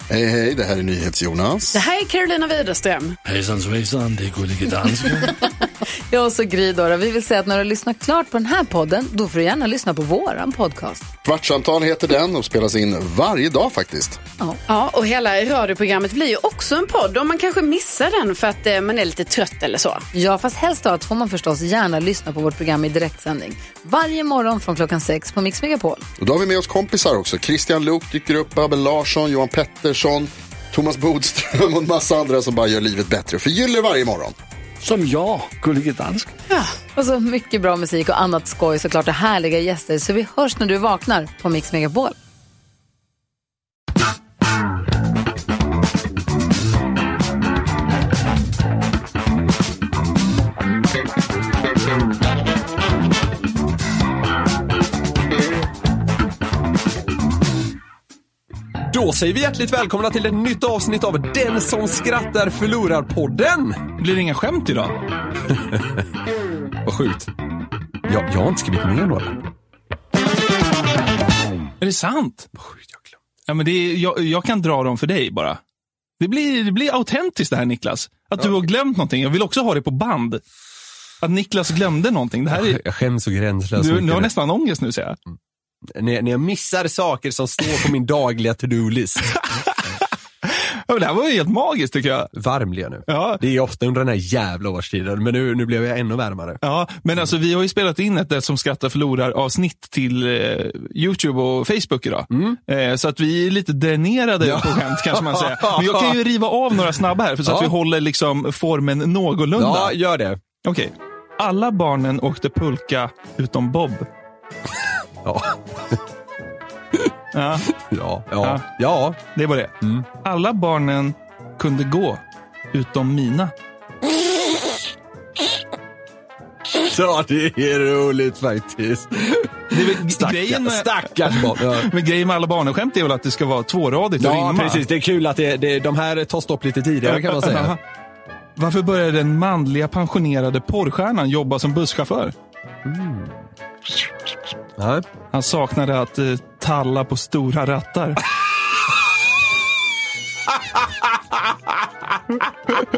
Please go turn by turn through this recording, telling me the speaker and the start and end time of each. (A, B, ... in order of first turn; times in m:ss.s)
0:00.1-0:01.8 A
0:01.7-0:03.2 B
0:03.2-0:05.3 C
0:06.1-0:11.1 D
0:11.3-0:14.2 A
0:14.7-0:20.0 B
0:20.1-0:26.0 D
0:26.2-0:34.4 A
0:34.8-0:36.3 C
0:36.9-0:42.2 D
0:58.9-1:03.8 E
1:04.0-1:05.0 F
1:05.5-1:06.0 E
1:06.8-1:07.3 E
1:08.1-1:09.4 E
1:11.8-1:12.5 F
1:12.6-1:13.1 E
1:13.5-1:15.6 F
1:16.2-1:20.4 F
1:21.2-1:22.8 F
1:22.5-1:24.3 E
1:23.8-1:25.2 F
1:26.0-1:29.4 E
1:30.4-1:32.3 F
1:32.3-1:36.6 E
1:33.1-1:33.4 F
1:36.6-1:50.0 F
1:42.3-1:42.6 E
1:44.4-1:46.2 E
1:47.4-1:47.7 E
1:49.6-1:50.4 E
1:50.6-1:54.1 F
1:55.2-1:56.0 E
1:57.3-1:57.7 F
1:57.8-1:59.2 E
1:59.3-2:02.2 F
2:02.7-2:03.5 F
2:06.7-2:11.9 E
2:09.7-2:14.8 F
2:14.2-2:17.8 E
2:17.0-2:17.8 F
2:18.6-2:22.3 F
2:22.8-2:23.4 E
2:24.8-2:25.0 E
2:25.3-2:28.2 F
2:30.8-2:32.4 E